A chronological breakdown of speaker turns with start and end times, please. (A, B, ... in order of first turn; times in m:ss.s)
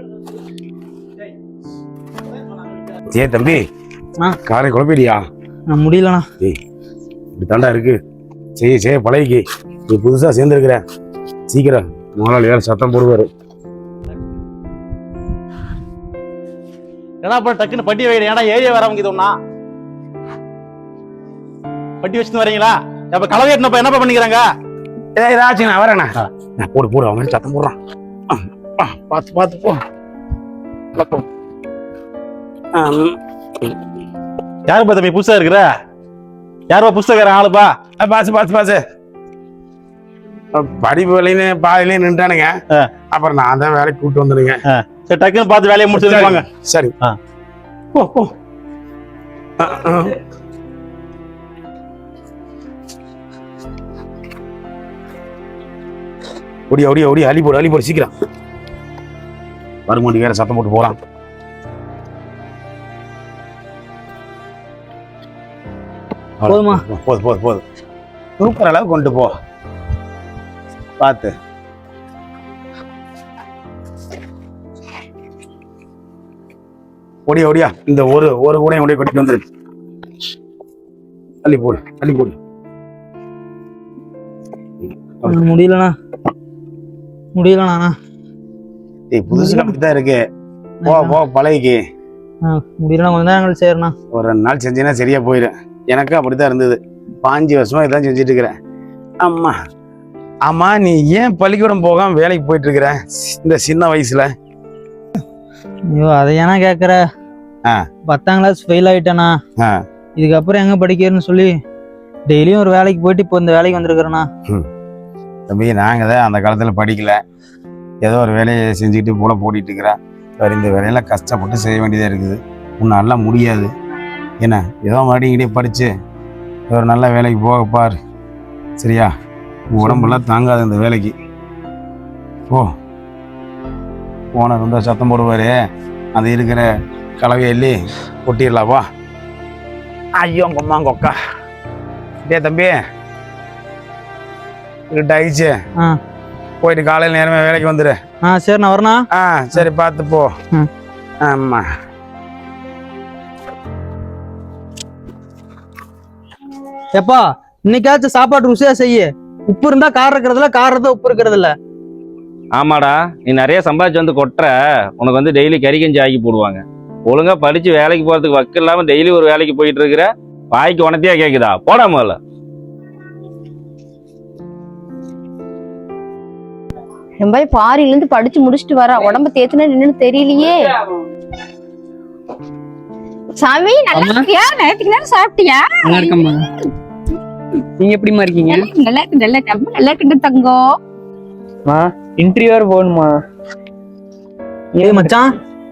0:03.1-0:03.6 A
0:04.5-0:05.2 A
0:05.7-0:06.3 B
0:07.4-0:08.0 A
0:08.6-0:10.8 A
0:11.5-0:13.3 A
0:17.2-0:19.3 C
0:22.0-0:24.4 C
0:25.2-0:27.8 A
0:28.3-0:29.8 A
0:32.8-0:33.2 A
0:34.7-0:35.6 C
0:36.7-0:37.7 C
0:38.0-0:38.8 A
0:40.5-0:42.5 A
0:43.1-0:44.6 A
0:44.7-0:46.4 C
0:45.9-0:46.9 A
0:49.6-0:50.2 A
0:56.7-0:58.1 A
0:59.9-1:00.9 A
1:06.4-1:07.6 A
1:06.5-1:06.8 B
1:08.4-1:09.3 A
1:11.0-1:11.3 A
1:17.3-1:19.4 A
1:21.4-1:22.4 A
1:25.3-1:25.9 B
1:27.4-1:27.9 B
1:29.1-1:30.2 A
1:29.3-1:29.7 B
1:30.8-1:31.2 B
1:30.9-1:31.8 A
1:32.5-1:33.9 B
1:34.1-1:38.5 A
1:39.2-1:39.6 A
1:40.5-1:44.3 A
1:45.9-1:47.0 B
1:48.1-1:49.3 B
1:50.2-1:51.5 B
1:52.3-1:54.3 B
1:55.5-1:57.2 A
1:58.0-2:03.7 A
2:04.4-2:05.9 A
2:06.7-2:08.0 A
2:08.8-2:09.1 A
2:09.7-2:11.1 A
2:09.8-2:10.2 B
2:14.4-2:15.5 A
2:16.2-2:16.7 A
2:17.2-2:18.8 A
2:20.2-2:21.2 A
2:22.3-2:22.8 A
2:24.9-2:25.6 A
2:26.6-2:28.0 A
2:28.2-2:29.0 B
2:29.1-2:30.3 A
2:31.2-2:31.6 A
2:37.0-2:41.5 B
2:42.6-2:52.2 D
2:57.2-3:00.6 E
3:03.4-3:06.4 E
3:04.0-3:04.3 F
3:05.8-3:06.4 F
3:07.8-3:08.7 F
3:08.4-3:10.8 E
3:11.7-3:13.2 F
3:14.8-3:15.1 F
3:14.8-3:15.3 B